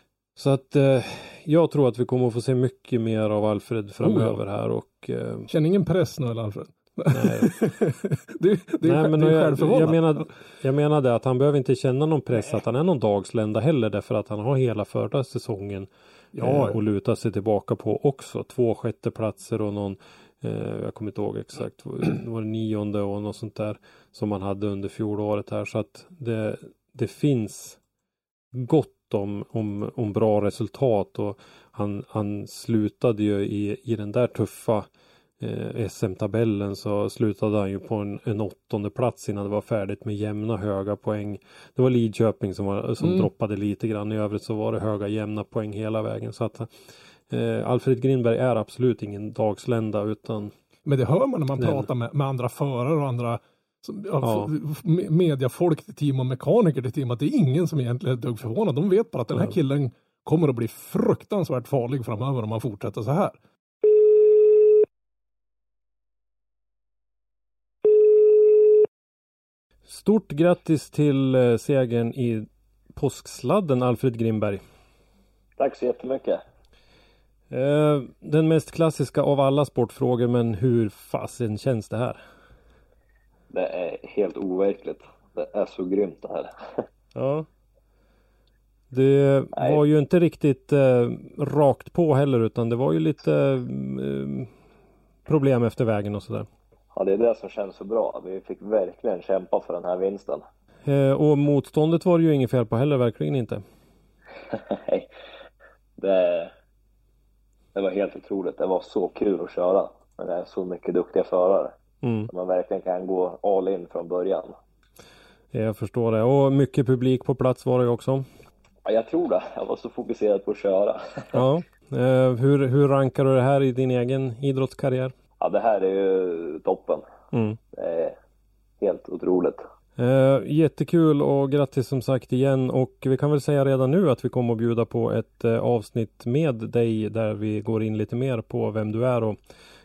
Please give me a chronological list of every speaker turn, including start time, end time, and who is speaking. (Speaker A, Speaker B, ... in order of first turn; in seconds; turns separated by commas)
Speaker A: 0.4-5.5, Speaker B: 4.0-4.4, Speaker B: 5.5-10.3, Speaker A: 7.1-7.5, Speaker A: 8.8-27.8, Speaker B: 16.4-16.8, Speaker A: 28.5-34.9, Speaker A: 35.4-46.8, Speaker B: 43.0-43.3, Speaker A: 47.3-50.5, Speaker B: 50.9-63.4, Speaker A: 51.6-51.9, Speaker A: 54.2-54.5, Speaker A: 69.9-74.6, Speaker C: 75.6-76.4, Speaker A: 77.5-82.2, Speaker C: 83.5-86.5, Speaker A: 87.2-87.5, Speaker A: 88.9-94.5, Speaker C: 89.5-89.8, Speaker A: 95.3-96.5, Speaker C: 97.0-100.4, Speaker A: 100.9-103.6, Speaker C: 104.5-105.1, Speaker C: 106.0-106.5, Speaker C: 107.8-111.8, Speaker A: 112.0-112.3, Speaker C: 112.3-114.5, Speaker A: 115.5-118.2, Speaker C: 118.9-121.4, Speaker A: 121.3-125.1, Speaker C: 125.4-127.0, Speaker A: 127.3-127.6, Speaker C: 127.7-128.2, Speaker C: 128.8-129.6, Speaker A: 130.0-139.4